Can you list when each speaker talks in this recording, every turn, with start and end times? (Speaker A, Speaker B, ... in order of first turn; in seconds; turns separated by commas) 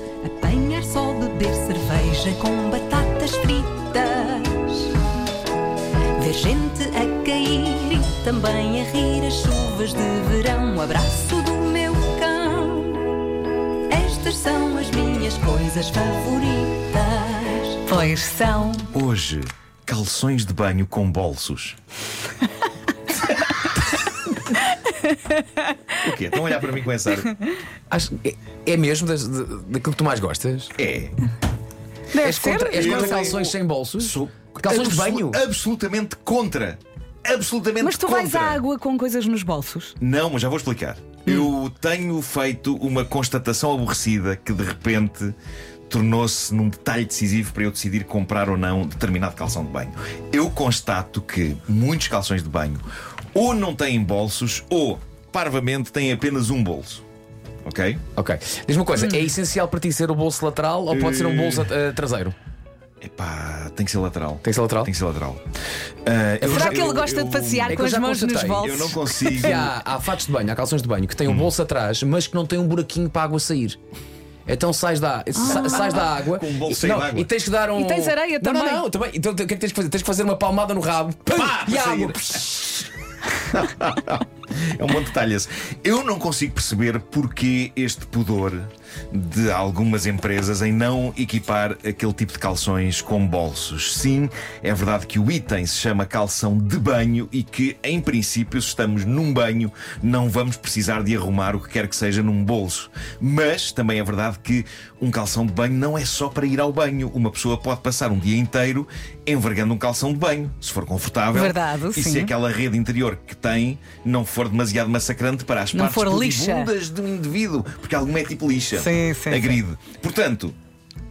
Speaker A: 0.2-4.9, Speaker A: 6.2-13.1, Speaker A: 13.9-17.9, Speaker B: 17.9-18.9, Speaker C: 18.9-21.8, Speaker C: 26.0-27.3, Speaker D: 27.9-30.7, Speaker C: 30.8-31.1, Speaker B: 32.1-33.4, Speaker D: 32.2-35.4, Speaker C: 32.7-38.6, Speaker B: 37.8-39.9, Speaker C: 40.0-45.3, Speaker C: 45.9-52.8, Speaker C: 53.3-57.0, Speaker C: 57.6-58.0, Speaker D: 58.1-62.4, Speaker C: 60.9-61.7, Speaker C: 63.0-65.4, Speaker D: 64.4-64.9, Speaker C: 66.0-67.8, Speaker D: 66.4-66.8, Speaker B: 66.4-69.6, Speaker D: 67.7-68.7, Speaker C: 68.6-69.7, Speaker D: 69.3-73.8, Speaker D: 74.5-82.9, Speaker B: 75.3-76.1, Speaker C: 75.4-77.3, Speaker B: 77.7-78.8, Speaker C: 81.3-82.4, Speaker C: 83.5-120.5, Speaker B: 111.3-112.3, Speaker B: 115.7-116.7, Speaker B: 118.7-119.6